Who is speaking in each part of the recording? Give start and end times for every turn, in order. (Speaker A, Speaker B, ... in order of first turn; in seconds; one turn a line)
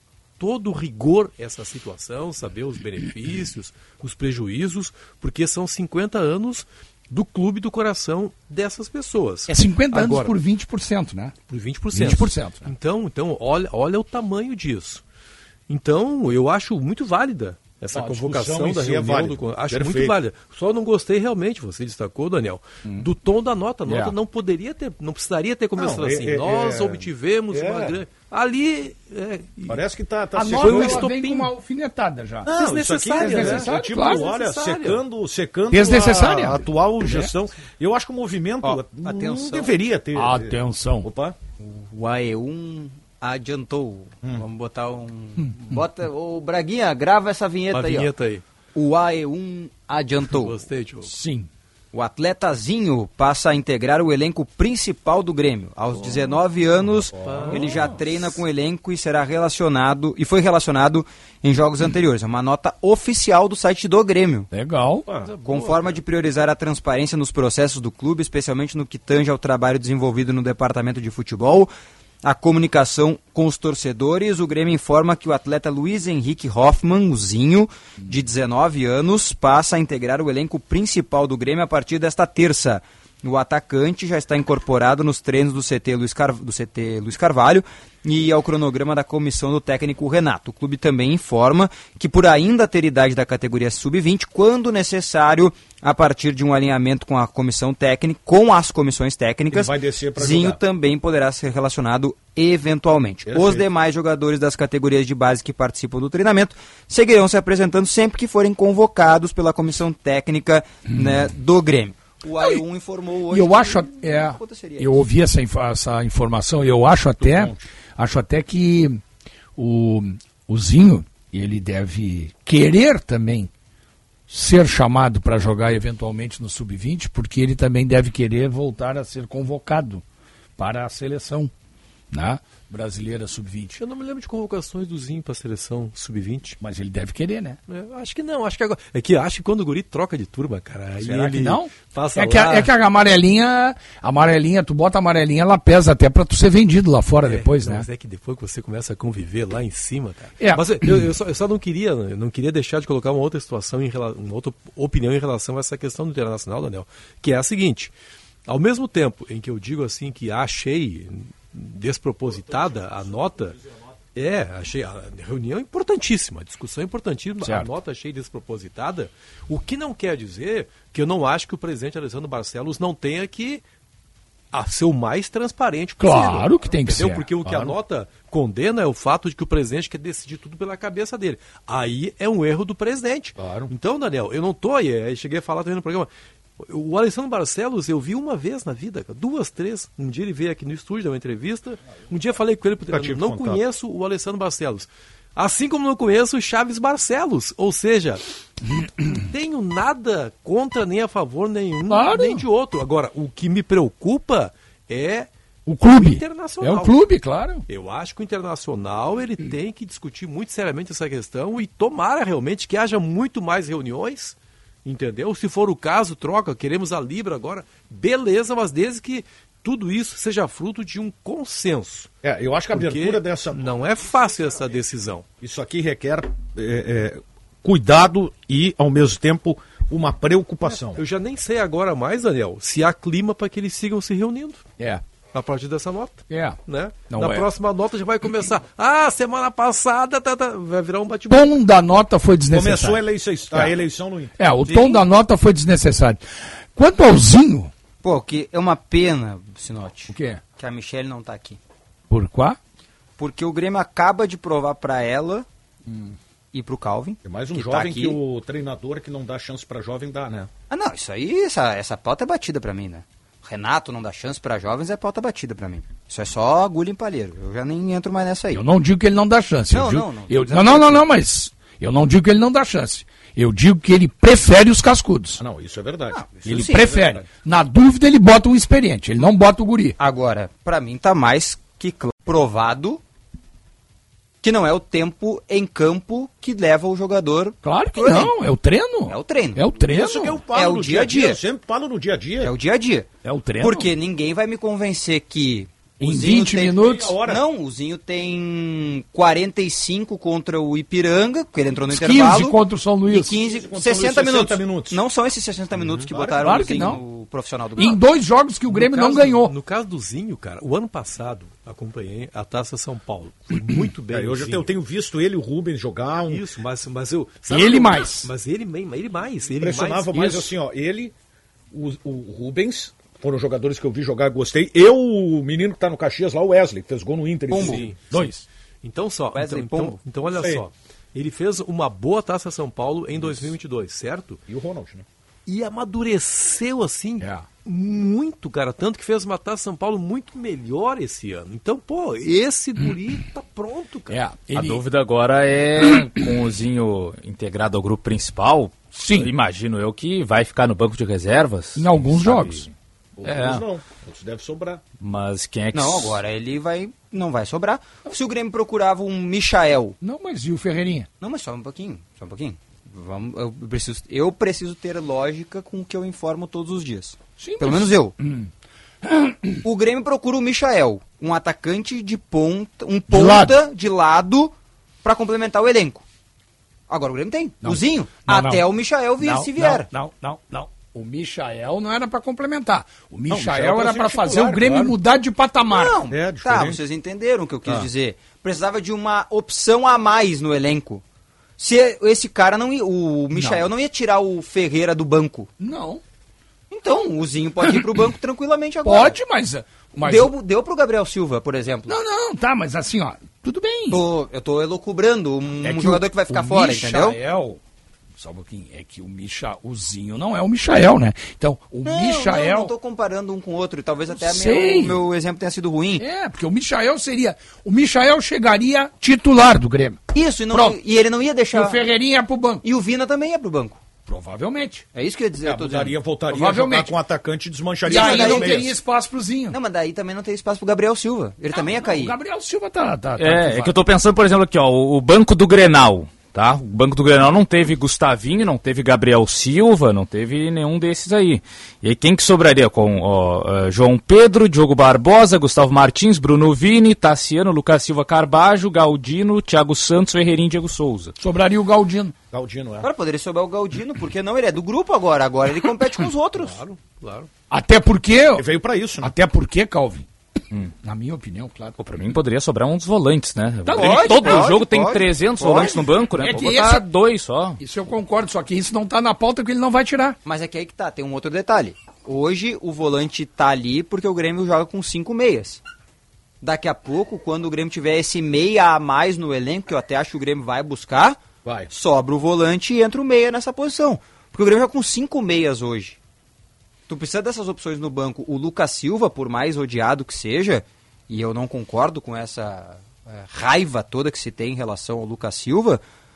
Speaker A: 0.4-10.3
Speaker B: 9.5-11.3
Speaker A: 11.5-15.0
Speaker B: 11.9-12.7
Speaker A: 15.7-29.8
Speaker C: 17.9-20.2
Speaker B: 23.9-24.1
Speaker C: 25.8-28.0
Speaker C: 29.7-31.1
Speaker B: 30.4-32.5
Speaker A: 30.5-31.5
Speaker A: 32.5-35.0
Speaker C: 32.5-41.4
Speaker B: 33.1-34.3
Speaker B: 35.7-36.6
Speaker D: 38.7-39.6
Speaker B: 40.1-41.1
Speaker D: 41.6-48.1
Speaker A: 47.7-48.4
Speaker D: 48.7-50.6
Speaker A: 50.3-51.1
Speaker B: 51.0-51.5
Speaker D: 51.9-64.5
Speaker A: 56.0-56.3
Speaker A: 57.1-58.0
Speaker C: 57.3-57.7
Speaker B: 64.5-65.1
Speaker A: 65.2-66.0
Speaker D: 65.4-71.7
Speaker D: 72.2-115.0
Speaker C: 99.5-100.6
Speaker C: 103.3-103.7
Speaker B: 113.3-119.0
Speaker C: 117.2-117.6
Speaker B: 119.6-123.5
Speaker B: 124.3-130.0
Speaker B: 130.6-131.5
Speaker B: 132.1-133.8
Speaker A: 133.7-136.6
Speaker B: 136.6-137.6
Speaker A: 137.7-142.7
Speaker B: 141.0-147.9
Speaker A: 147.2-157.9
Speaker B: 150.4-151.1
Speaker A: 158.4-163.6
Speaker C: 162.4-163.3
Speaker A: 164.1-173.6
Speaker B: 167.4-167.7
Speaker A: 174.5-198.2
Speaker B: 176.0-177.3
Speaker C: 177.4-177.8
Speaker C: 183.4-183.7
Speaker C: 192.9-193.6
Speaker A: 199.1-205.3
Speaker B: 201.9-202.4
Speaker B: 205.7-207.6
Speaker A: 205.8-207.0
Speaker A: 207.7-222.1
Speaker C: 222.2-223.7
Speaker A: 222.7-225.3
Speaker C: 225.4-231.0
Speaker A: 230.9-234.7
Speaker A: 235.3-241.5
Speaker B: 236.3-237.5
Speaker B: 241.3-243.7
Speaker C: 242.5-244.3
Speaker B: 244.4-246.2
Speaker D: 244.7-245.0
Speaker B: 246.8-247.7
Speaker D: 248.0-251.6
Speaker B: 250.1-250.4
Speaker B: 252.1-252.6
Speaker D: 253.2-255.4
Speaker D: 256.5-258.2
Speaker C: 257.2-260.5
Speaker D: 260.7-268.6
Speaker B: 268.5-275.4
Speaker D: 269.7-271.1
Speaker C: 275.4-276.9
Speaker D: 276.1-277.1
Speaker B: 276.4-280.0
Speaker D: 280.0-283.0
Speaker D: 284.4-288.3
Speaker B: 287.6-290.4
Speaker D: 289.1-289.7
Speaker C: 289.8-292.5
Speaker D: 290.5-291.4
Speaker D: 292.4-293.1
Speaker B: 293.2-293.9
Speaker D: 293.6-308.0
Speaker B: 296.0-297.2
Speaker C: 296.6-297.4
Speaker B: 301.9-303.4
Speaker C: 303.3-305.0
Speaker C: 305.9-306.7
Speaker B: 306.4-307.0
Speaker B: 307.8-309.5
Speaker A: 308.7-314.7
Speaker C: 314.1-316.4
Speaker A: 316.3-320.5
Speaker B: 317.5-318.3
Speaker C: 319.6-321.1
Speaker C: 321.7-328.3
Speaker D: 327.5-327.8
Speaker A: 327.6-328.1
Speaker B: 328.1-328.4
Speaker A: 328.8-334.4
Speaker D: 329.3-330.0
Speaker C: 330.3-330.6
Speaker C: 333.2-333.5
Speaker C: 334.5-335.1
Speaker A: 335.4-344.2
Speaker B: 337.2-337.5
Speaker B: 344.1-344.8
Speaker E: 344.5-352.7
Speaker B: 348.9-349.3
Speaker B: 351.8-352.7
Speaker C: 353.2-354.8
Speaker E: 353.2-353.6
Speaker E: 355.0-356.2
Speaker D: 355.7-360.0
Speaker B: 360.0-361.1
Speaker D: 361.2-368.1
Speaker B: 367.4-368.5
Speaker B: 369.0-369.6
Speaker D: 369.6-376.0
Speaker B: 373.1-373.6
Speaker D: 376.9-379.9
Speaker B: 377.6-378.7
Speaker B: 379.2-385.9
Speaker C: 383.3-384.9
Speaker D: 385.7-391.0
Speaker C: 386.1-386.8
Speaker D: 391.6-395.5
Speaker B: 393.3-393.7
Speaker B: 395.6-396.0
Speaker D: 396.7-399.2
Speaker B: 398.9-400.3
Speaker D: 400.0-402.0
Speaker B: 401.9-404.0
Speaker D: 403.9-407.2
Speaker B: 405.6-407.6
Speaker B: 408.2-412.7
Speaker D: 411.9-416.1
Speaker B: 414.2-415.0
Speaker B: 416.0-420.0
Speaker D: 420.1-421.8
Speaker B: 420.5-420.8
Speaker B: 421.5-422.6
Speaker D: 422.6-423.8
Speaker B: 424.1-424.8
Speaker D: 424.9-425.9
Speaker C: 425.4-428.7
Speaker B: 426.3-426.9
Speaker D: 427.9-428.7
Speaker B: 427.9-429.6
Speaker D: 429.5-432.1
Speaker B: 431.5-433.7
Speaker E: 433.2-451.1
Speaker B: 451.2-452.1
Speaker C: 452.3-452.9
Speaker D: 452.8-456.6
Speaker A: 456.4-457.3
Speaker B: 457.5-458.4
Speaker C: 458.4-459.1
Speaker B: 459.0-460.1
Speaker B: 460.8-461.7
Speaker E: 461.8-467.6
Speaker B: 463.6-464.6
Speaker D: 463.7-465.8
Speaker B: 466.2-466.9
Speaker B: 467.6-470.2
Speaker D: 470.2-475.6
Speaker D: 476.4-486.0
Speaker C: 481.4-481.7
Speaker D: 486.9-495.8